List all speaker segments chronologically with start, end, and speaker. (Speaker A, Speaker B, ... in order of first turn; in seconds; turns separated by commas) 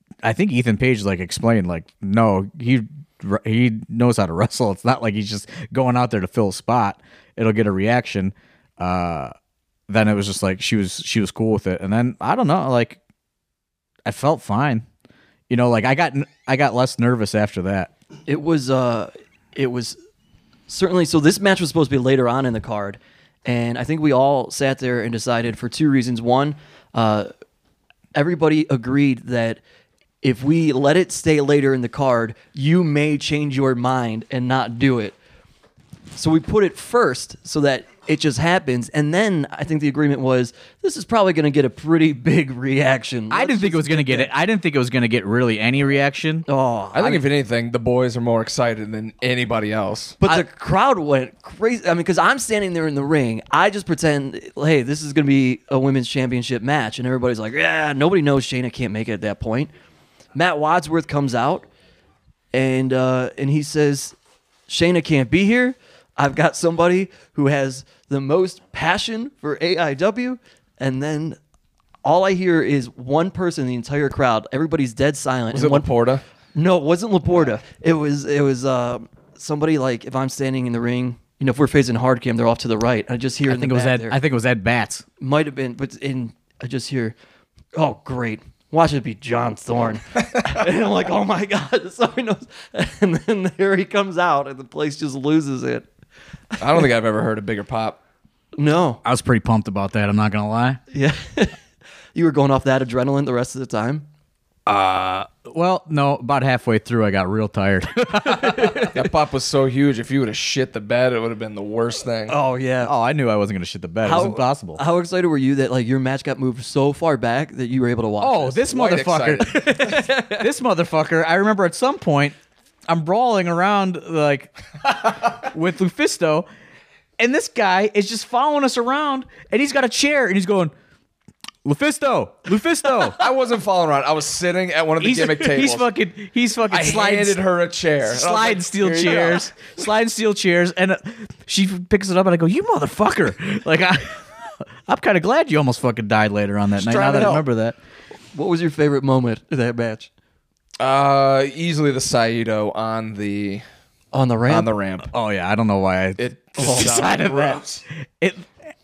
Speaker A: 0.2-9.3, Speaker A: 9.9-13.0, Speaker A: 14.1-14.8, Speaker A: 15.5-17.9, Speaker B: 18.3-20.0, Speaker B: 20.7-27.3, Speaker B: 28.1-29.6, Speaker B: 30.2-35.2, Speaker B: 36.2-44.3, Speaker A: 43.3-46.5, Speaker B: 46.5-47.2, Speaker C: 46.9-50.2, Speaker B: 50.2-59.7, Speaker B: 60.4-61.7, Speaker B: 62.5-64.2, Speaker B: 64.7-71.4, Speaker B: 72.0-75.9, Speaker C: 75.5-76.2, Speaker B: 76.5-84.2, Speaker A: 83.5-85.0, Speaker B: 85.2-87.2, Speaker B: 87.8-95.9, Speaker C: 96.6-98.0, Speaker B: 98.6-99.0, Speaker A: 99.0-100.8, Speaker B: 100.9-101.6, Speaker B: 102.2-104.1, Speaker A: 104.7-108.9, Speaker B: 108.3-109.0, Speaker C: 108.9-112.3, Speaker B: 112.3-112.9, Speaker A: 112.8-114.8, Speaker B: 114.0-118.7, Speaker A: 118.2-122.4, Speaker C: 118.7-119.7, Speaker B: 119.5-120.4, Speaker A: 122.9-126.5, Speaker A: 127.2-130.7, Speaker A: 131.6-133.2, Speaker C: 133.1-135.9, Speaker A: 135.0-137.4, Speaker C: 136.7-139.7, Speaker A: 138.1-147.8, Speaker C: 146.8-147.4, Speaker B: 147.0-147.4, Speaker B: 148.3-150.1, Speaker C: 150.8-153.6, Speaker B: 154.1-154.7, Speaker C: 154.5-155.1, Speaker A: 155.1-157.6, Speaker C: 156.2-157.8, Speaker A: 158.2-158.5